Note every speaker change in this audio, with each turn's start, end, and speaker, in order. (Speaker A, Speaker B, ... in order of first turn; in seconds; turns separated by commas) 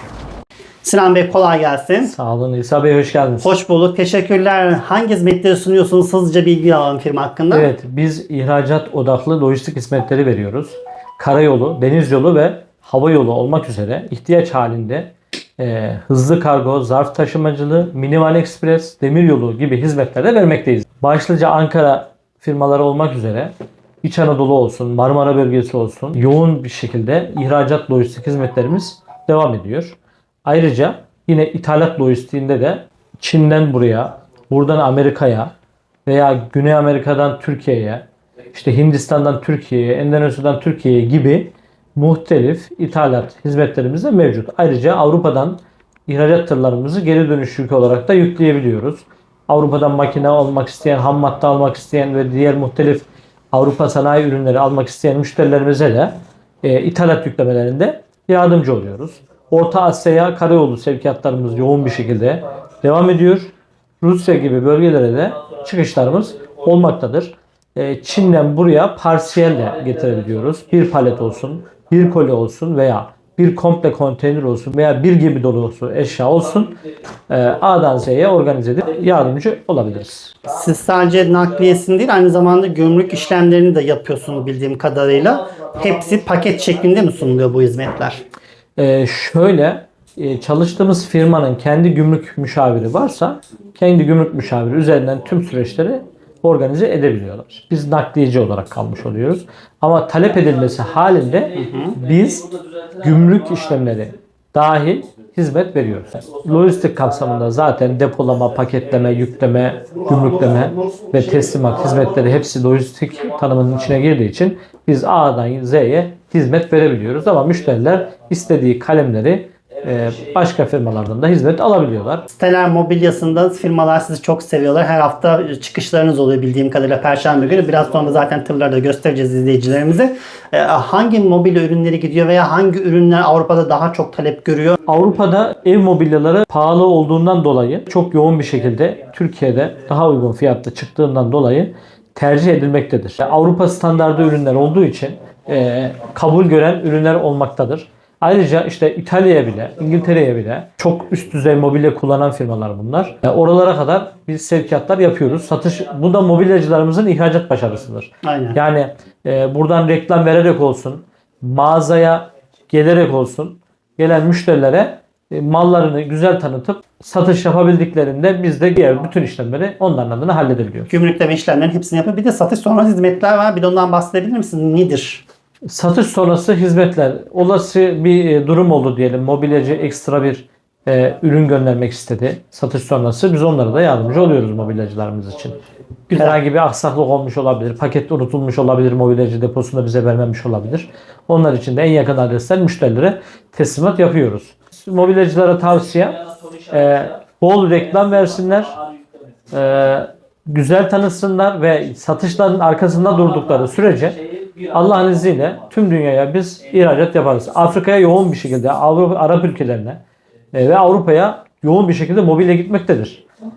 Speaker A: 0.8-2.1, Speaker B: 2.1-3.5, Speaker A: 3.4-7.7, Speaker B: 7.5-35.5, Speaker B: 36.0-76.8, Speaker B: 77.3-80.3, Speaker A: 80.5-88.2, Speaker B: 88.8-122.2, Speaker A: 101.5-101.9, Speaker A: 122.3-134.8, Speaker B: 134.9-170.9, Speaker A: 158.2-158.6, Speaker A: 170.9-175.2, Speaker B: 175.6-185.6, Speaker B: 186.1-198.8, Speaker B: 199.5-210.0, Speaker B: 210.5-213.2